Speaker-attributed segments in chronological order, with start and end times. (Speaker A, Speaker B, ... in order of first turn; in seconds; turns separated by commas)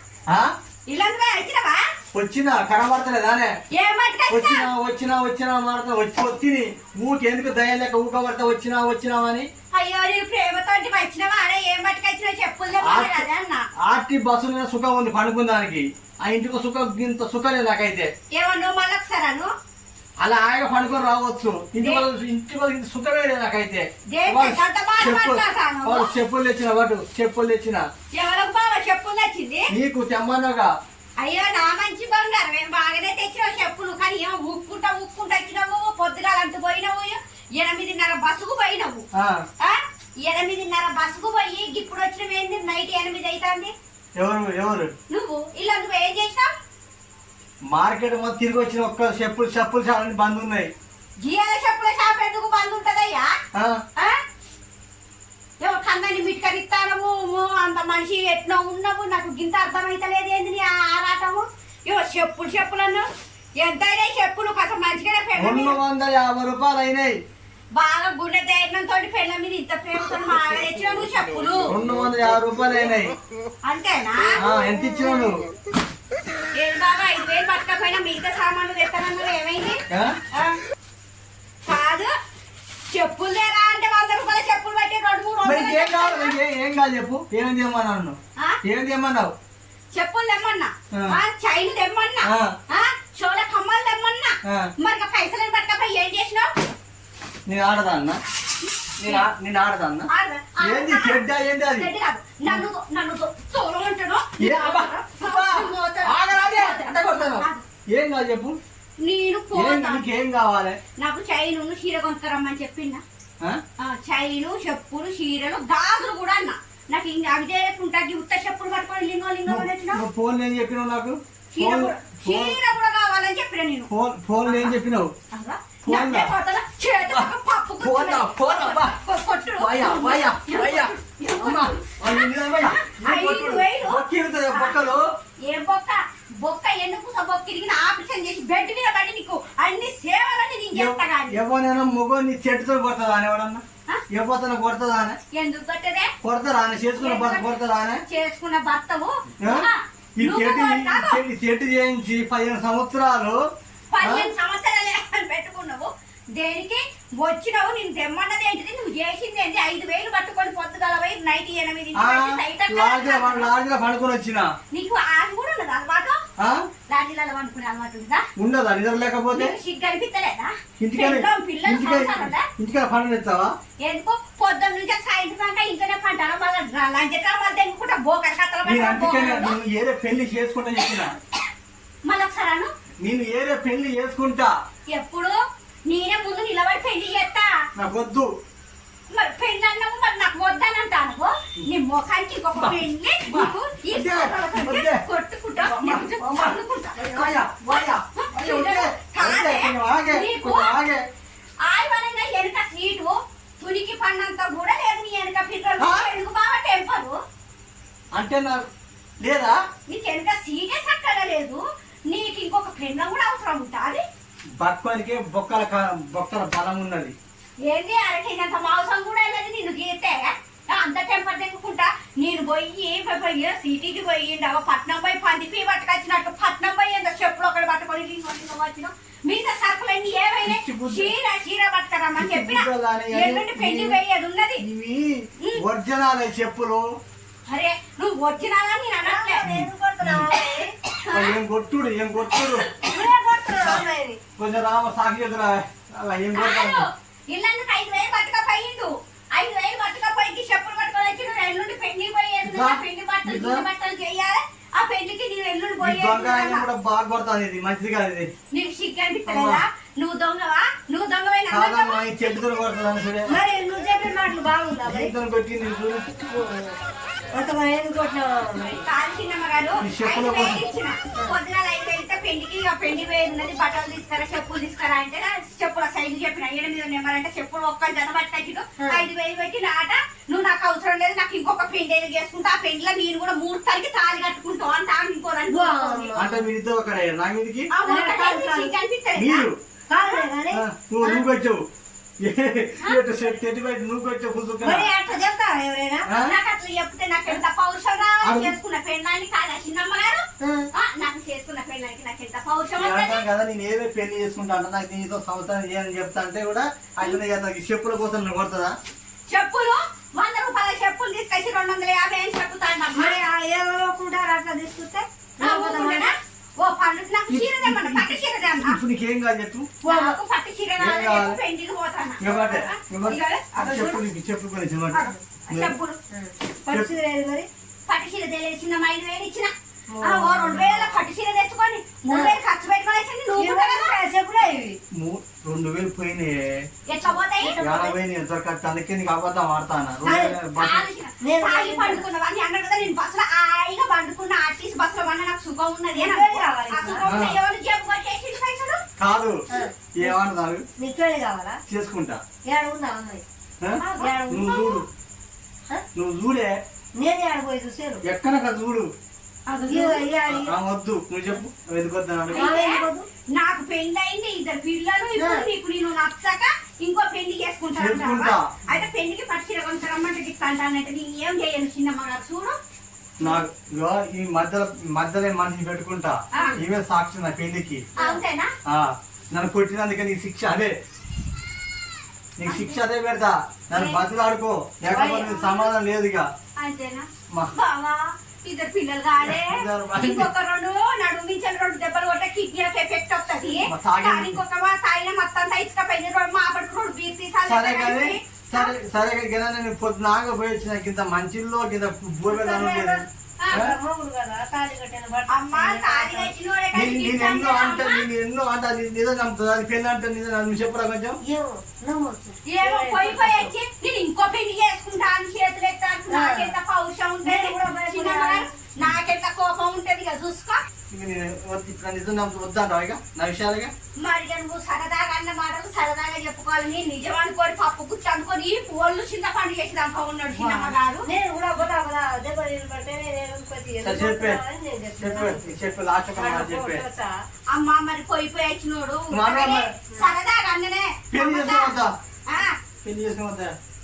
Speaker A: 0.9-1.8, Speaker B: 2.1-3.5, Speaker A: 3.7-4.7, Speaker B: 4.3-9.5, Speaker A: 9.7-13.7, Speaker B: 12.8-13.2, Speaker B: 13.8-18.1, Speaker A: 18.3-19.5, Speaker B: 20.2-27.9, Speaker A: 21.8-22.1, Speaker A: 24.1-26.1, Speaker A: 28.1-29.7, Speaker B: 29.7-30.7, Speaker A: 31.2-39.0, Speaker B: 39.1-39.4, Speaker A: 39.6-43.7, Speaker B: 44.2-44.9, Speaker A: 45.1-46.5, Speaker B: 47.7-50.7, Speaker A: 51.2-53.4, Speaker B: 53.5-53.8, Speaker A: 55.6-63.1, Speaker A: 63.6-65.8, Speaker B: 65.4-67.2, Speaker A: 67.7-71.8, Speaker B: 71.7-73.2, Speaker A: 73.6-74.5, Speaker B: 74.4-75.4, Speaker A: 76.5-80.6, Speaker B: 79.9-80.2, Speaker A: 81.7-82.1, Speaker A: 82.9-86.4, Speaker B: 85.4-89.3, Speaker A: 89.9-96.5, Speaker B: 90.9-91.2, Speaker B: 92.2-92.5, Speaker B: 94.5-94.7, Speaker B: 97.5-98.2, Speaker A: 98.6-99.3, Speaker B: 99.0-100.1, Speaker A: 100.1-107.6, Speaker B: 100.6-101.9, Speaker B: 104.4-108.6, Speaker A: 109.0-110.1, Speaker B: 109.5-110.8, Speaker A: 111.0-113.0, Speaker A: 113.8-120.0, Speaker B: 119.5-122.6, Speaker A: 121.5-123.9, Speaker B: 123.9-125.1, Speaker A: 124.5-124.7, Speaker A: 125.3-141.4, Speaker B: 125.8-126.3, Speaker B: 127.1-129.0, Speaker B: 129.6-135.1, Speaker B: 140.7-145.2, Speaker A: 145.3-146.1, Speaker B: 146.2-148.0, Speaker A: 147.0-151.2, Speaker B: 149.4-153.4, Speaker A: 153.9-163.5, Speaker B: 154.0-154.3, Speaker B: 161.9-164.5, Speaker A: 164.7-166.2, Speaker B: 166.4-166.7, Speaker A: 166.9-168.2, Speaker B: 168.4-169.6, Speaker A: 169.3-172.5, Speaker B: 170.8-173.5, Speaker A: 173.8-179.6, Speaker B: 178.7-181.2, Speaker A: 182.1-182.7, Speaker B: 183.0-184.5, Speaker A: 184.9-185.3, Speaker A: 185.9-187.6, Speaker B: 187.8-188.3, Speaker A: 189.1-200.8, Speaker B: 192.6-195.0, Speaker B: 195.6-201.0, Speaker A: 201.6-207.2, Speaker B: 205.8-206.1, Speaker B: 208.1-208.6, Speaker B: 209.2-209.6, Speaker A: 209.9-214.0, Speaker B: 214.6-217.2, Speaker A: 217.6-234.6, Speaker B: 230.4-231.1, Speaker B: 232.2-234.0, Speaker B: 234.6-236.9, Speaker A: 237.5-239.5, Speaker C: 239.1-240.7, Speaker B: 239.4-240.3, Speaker A: 241.0-241.4, Speaker B: 241.1-242.7, Speaker A: 242.4-243.1, Speaker C: 242.8-244.2, Speaker B: 244.4-246.9, Speaker A: 246.3-256.7, Speaker B: 252.4-253.7, Speaker B: 255.8-258.3, Speaker A: 258.5-262.0, Speaker B: 259.3-259.6, Speaker B: 261.5-263.3, Speaker C: 263.3-265.1, Speaker B: 264.9-266.1, Speaker C: 266.3-266.8, Speaker C: 267.3-268.8, Speaker A: 268.7-286.2, Speaker B: 269.8-270.6, Speaker C: 278.8-279.1, Speaker C: 285.5-286.4, Speaker B: 286.1-287.7, Speaker A: 287.7-289.5, Speaker C: 287.8-288.8, Speaker B: 289.2-289.6, Speaker C: 289.9-291.2, Speaker B: 290.5-291.6, Speaker B: 292.2-294.9, Speaker C: 294.6-296.1, Speaker B: 296.1-296.4, Speaker A: 296.1-303.3, Speaker B: 298.2-298.6, Speaker C: 300.4-300.7, Speaker B: 302.8-308.8, Speaker A: 309.3-313.2, Speaker C: 312.9-316.1, Speaker A: 315.4-318.8, Speaker B: 317.3-319.7, Speaker C: 319.8-320.2, Speaker A: 319.9-324.0, Speaker B: 320.8-321.4, Speaker B: 322.2-325.7, Speaker C: 323.6-324.1, Speaker A: 324.9-326.0, Speaker C: 326.1-327.5, Speaker A: 327.9-329.5, Speaker C: 329.9-331.0, Speaker A: 330.0-334.0, Speaker C: 332.1-332.4, Speaker C: 333.3-334.8, Speaker B: 334.9-336.7, Speaker A: 336.9-337.7, Speaker C: 337.1-337.9, Speaker B: 337.6-340.9, Speaker C: 340.0-340.4, Speaker A: 340.5-348.8, Speaker C: 341.2-342.1, Speaker C: 345.9-347.0, Speaker B: 347.0-347.4, Speaker B: 349.0-349.4, Speaker C: 349.5-350.1, Speaker B: 350.0-350.6, Speaker C: 350.8-351.6, Speaker B: 351.7-352.2, Speaker C: 352.5-353.2, Speaker B: 353.6-354.9, Speaker A: 353.8-354.2, Speaker C: 354.0-354.8, Speaker B: 355.9-356.5, Speaker C: 357.0-358.0, Speaker B: 358.0-358.9, Speaker A: 359.5-360.1, Speaker C: 359.7-360.6, Speaker B: 360.3-362.5, Speaker A: 362.3-372.6, Speaker C: 362.4-363.1, Speaker C: 365.2-365.4, Speaker B: 367.7-368.5, Speaker B: 373.2-377.8, Speaker A: 376.3-376.6, Speaker A: 378.0-378.5, Speaker B: 378.7-380.7, Speaker B: 382.4-386.3, Speaker A: 382.4-382.8, Speaker A: 383.7-384.0, Speaker A: 384.9-385.7, Speaker A: 386.6-398.7, Speaker B: 389.2-390.3, Speaker B: 393.6-394.4, Speaker B: 397.4-403.8, Speaker A: 402.3-403.7, Speaker C: 403.5-406.3, Speaker A: 405.3-408.1, Speaker B: 406.7-411.2, Speaker C: 411.2-413.5, Speaker A: 412.5-420.6, Speaker C: 416.1-416.5, Speaker C: 417.2-418.5, Speaker B: 420.9-423.7, Speaker A: 424.0-431.1, Speaker B: 430.4-430.8, Speaker C: 431.0-437.1, Speaker B: 433.8-434.4, Speaker B: 435.0-436.8, Speaker A: 437.5-441.8, Speaker B: 439.1-439.7, Speaker B: 441.1-441.9, Speaker A: 442.3-442.6, Speaker B: 442.8-443.5